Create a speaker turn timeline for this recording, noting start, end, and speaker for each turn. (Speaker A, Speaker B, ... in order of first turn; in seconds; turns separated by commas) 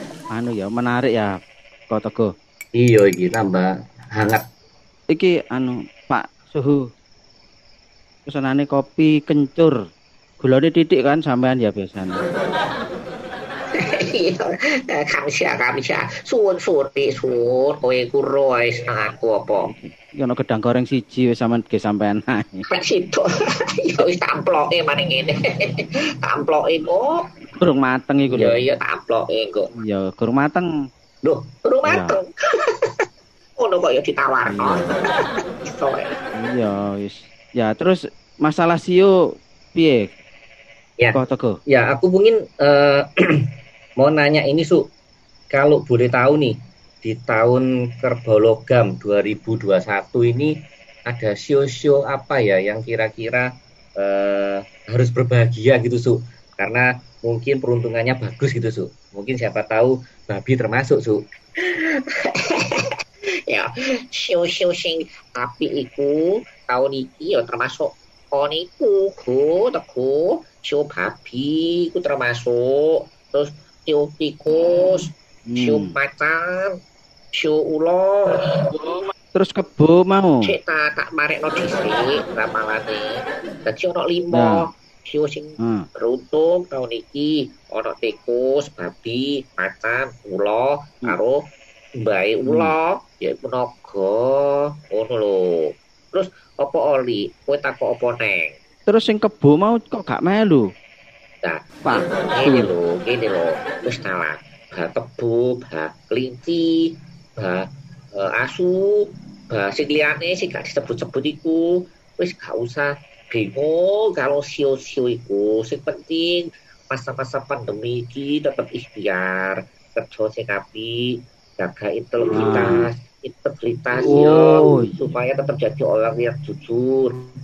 Speaker A: 0.3-2.3, Speaker B: 2.8-4.4, Speaker A: 5.1-6.9, Speaker A: 8.3-9.8, Speaker A: 10.4-12.2, Speaker C: 13.7-19.9, Speaker A: 20.2-22.6, Speaker C: 22.7-23.3, Speaker C: 23.8-27.2, Speaker A: 27.6-28.6, Speaker C: 28.3-29.7, Speaker A: 29.8-30.7, Speaker C: 31.2-33.0, Speaker A: 31.9-32.1, Speaker C: 33.6-35.0, Speaker A: 34.5-35.0, Speaker C: 35.6-36.2, Speaker A: 36.4-39.1, Speaker A: 39.7-40.1, Speaker B: 41.0-43.1, Speaker A: 41.1-41.6, Speaker B: 44.0-44.9, Speaker B: 45.5-50.5, Speaker B: 51.1-61.2, Speaker C: 62.1-62.9, Speaker C: 63.5-76.7, Speaker A: 75.5-76.0, Speaker C: 77.3-78.6, Speaker A: 78.7-80.5, Speaker C: 80.5-91.4, Speaker A: 84.3-84.7, Speaker A: 85.6-85.9, Speaker C: 92.0-98.5, Speaker A: 92.5-92.7, Speaker A: 98.9-100.7, Speaker A: 101.8-102.7, Speaker C: 102.3-127.2, Speaker A: 122.3-122.8, Speaker A: 124.0-124.9